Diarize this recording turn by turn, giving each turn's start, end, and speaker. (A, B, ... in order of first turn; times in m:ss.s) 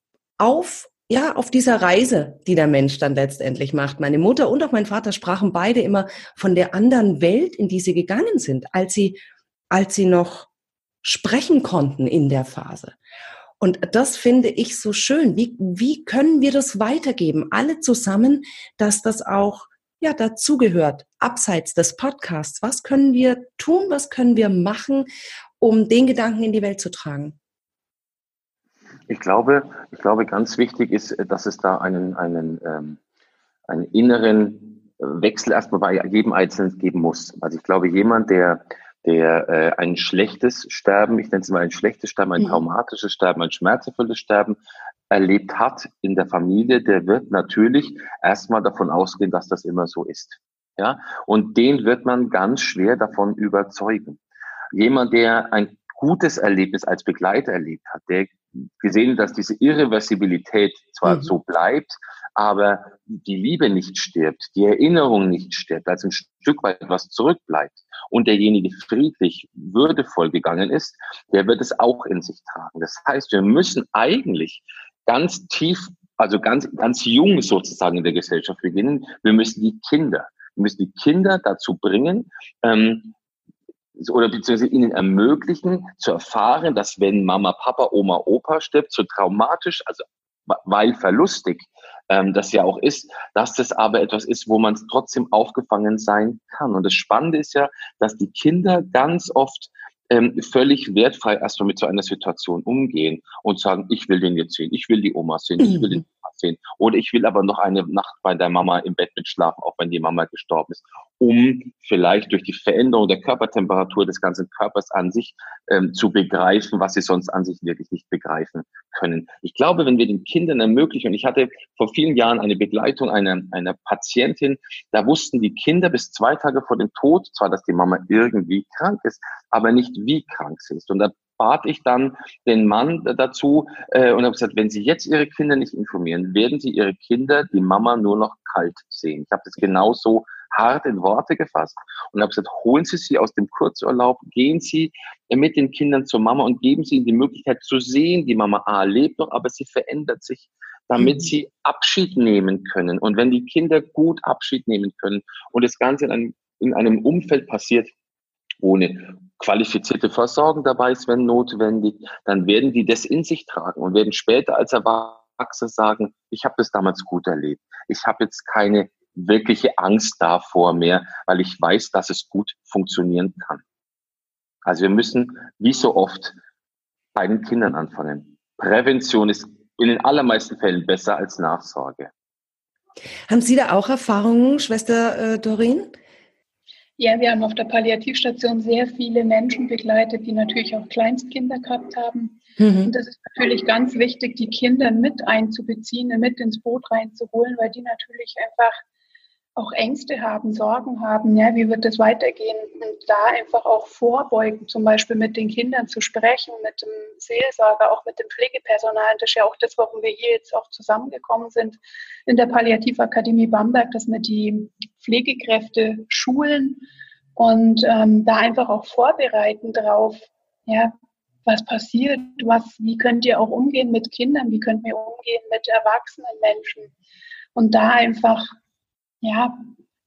0:00.4-0:09.2 A
0:09.7-0:10.5 A
0:11.0-0:13.0 A
0:13.6-0:25.1 A
0:25.6-0:27.4 A
0:29.1-0:33.0 B
0:33.7-0:44.6 B
0:45.1-0:54.2 B
0:54.7-1:23.1 B
1:01.0-1:01.3 A
1:24.0-2:37.9 B
1:45.6-1:46.0 A
2:31.0-2:31.3 A
2:38.6-2:53.6 B
2:54.7-2:56.4 B
2:57.2-3:02.1 B
3:03.3-3:05.9 A
3:07.0-3:18.8 C
3:12.6-3:12.9 A
3:19.6-3:36.8 C
3:37.4-3:40.9 C
3:41.5-3:46.9 C
3:47.6-3:48.5 C
3:49.2-3:49.7 C